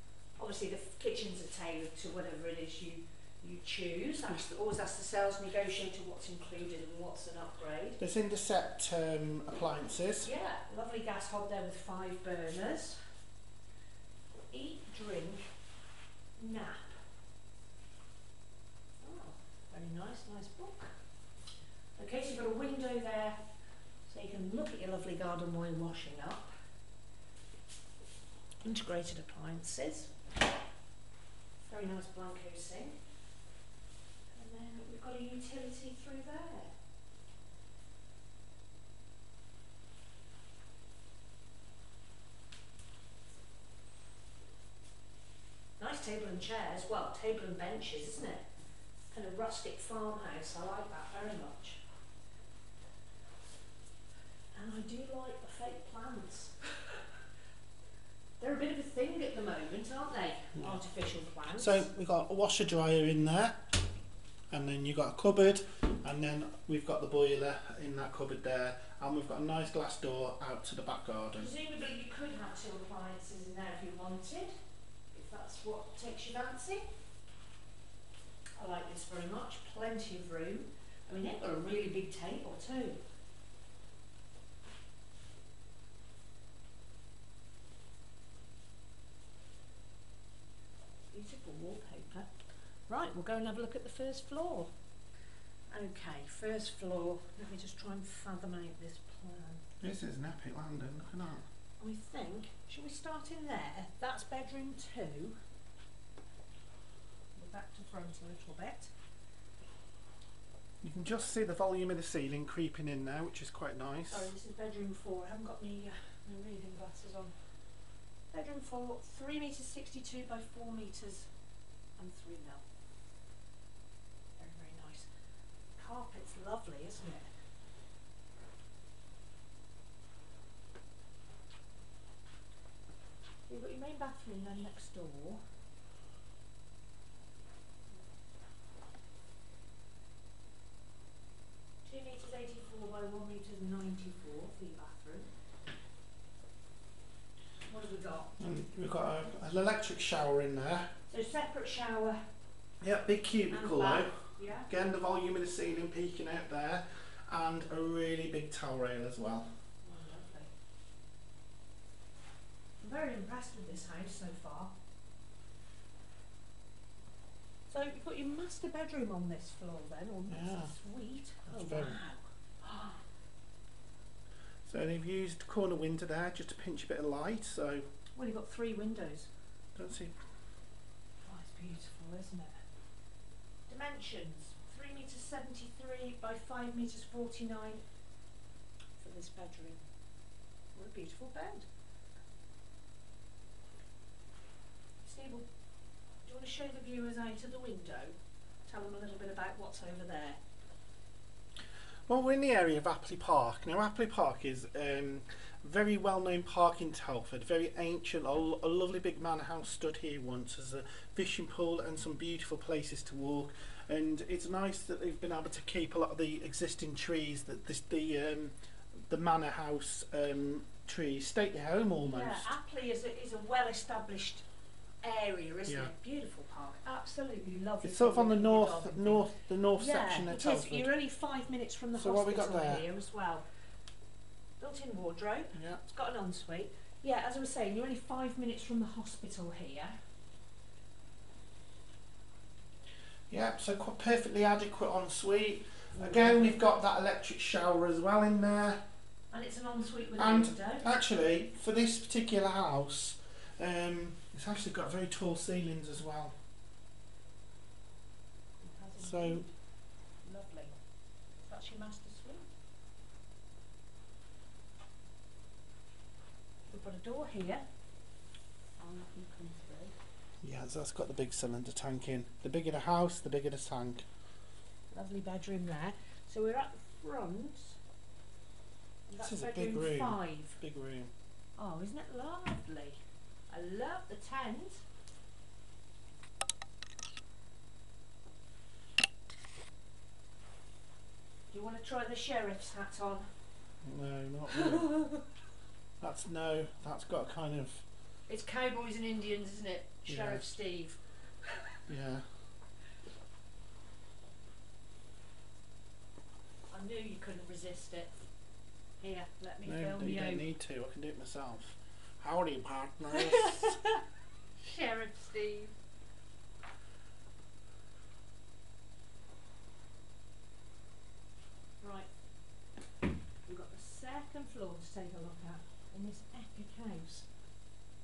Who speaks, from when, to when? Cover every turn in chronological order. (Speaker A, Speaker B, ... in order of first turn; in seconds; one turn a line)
Speaker A: 0.4-8.0
Speaker B: 8.0-10.3
Speaker A: 10.2-13.0
Speaker A: 14.5-15.5
Speaker A: 16.4-16.9
Speaker A: 19.0-20.9
Speaker A: 22.0-23.4
Speaker A: 24.1-26.5
Speaker A: 28.6-30.1
Speaker A: 31.7-33.0
Speaker A: 34.3-36.8
Speaker A: 45.8-48.5
Speaker A: 49.1-51.8
Speaker A: 54.5-56.9
Speaker A: 58.4-61.9
Speaker B: 61.6-63.7
Speaker B: 64.5-71.5
Speaker A: 71.3-74.5
Speaker A: 75.1-76.9
Speaker A: 78.6-83.0
Speaker A: 91.1-92.3
Speaker A: 92.9-94.7
Speaker A: 95.7-99.6
Speaker B: 99.8-101.5
Speaker A: 101.8-105.4
Speaker A: 107.3-108.9
Speaker B: 110.8-114.3
Speaker A: 114.1-117.3
Speaker A: 118.3-121.3
Speaker A: 122.0-122.7
Speaker A: 124.4-125.1
Speaker A: 125.8-127.3
Speaker A: 133.5-135.4
Speaker A: 141.8-145.3
Speaker A: 147.7-148.4
Speaker B: 148.4-150.9
Speaker A: 151.1-152.2
Speaker B: 152.8-159.5
Speaker A: 153.5-154.7
Speaker A: 159.8-160.5
Speaker A: 162.8-164.7
Speaker A: 167.7-173.0
Speaker B: 170.3-170.7
Speaker B: 171.5-172.0
Speaker B: 174.7-177.9
Speaker A: 178.2-179.3
Speaker B: 179.8-180.1
Speaker A: 181.2-182.6
Speaker A: 183.7-187.8
Speaker A: 189.0-189.8
Speaker A: 190.8-191.7
Speaker A: 195.0-195.5
Speaker A: 196.2-198.2
Speaker A: 198.7-200.4
Speaker B: 202.1-218.6
Speaker B: 219.1-222.5
Speaker A: 222.0-224.4
Speaker A: 225.0-233.4
Speaker B: 227.8-230.9
Speaker B: 231.9-232.9
Speaker A: 234.6-239.9
Speaker B: 235.6-235.8
Speaker B: 243.3-248.8
Speaker A: 245.9-246.6
Speaker A: 249.3-250.9
Speaker B: 250.2-256.4
Speaker A: 258.6-259.5
Speaker B: 259.0-259.5
Speaker A: 260.2-260.8
Speaker A: 261.4-262.4
Speaker A: 266.7-267.7
Speaker A: 268.8-269.9
Speaker B: 270.4-274.1
Speaker A: 274.9-277.8
Speaker A: 279.1-280.6
Speaker B: 279.2-281.1
Speaker A: 281.6-284.8
Speaker A: 291.5-293.3
Speaker B: 293.8-295.0
Speaker A: 294.5-295.2
Speaker B: 296.0-297.8
Speaker A: 298.3-301.0
Speaker B: 300.1-300.5
Speaker B: 301.9-302.2
Speaker A: 306.7-308.3
Speaker A: 309.0-310.5
Speaker B: 309.7-313.8
Speaker A: 313.1-314.0
Speaker A: 314.6-315.7
Speaker A: 321.8-322.1
Speaker A: 323.5-327.3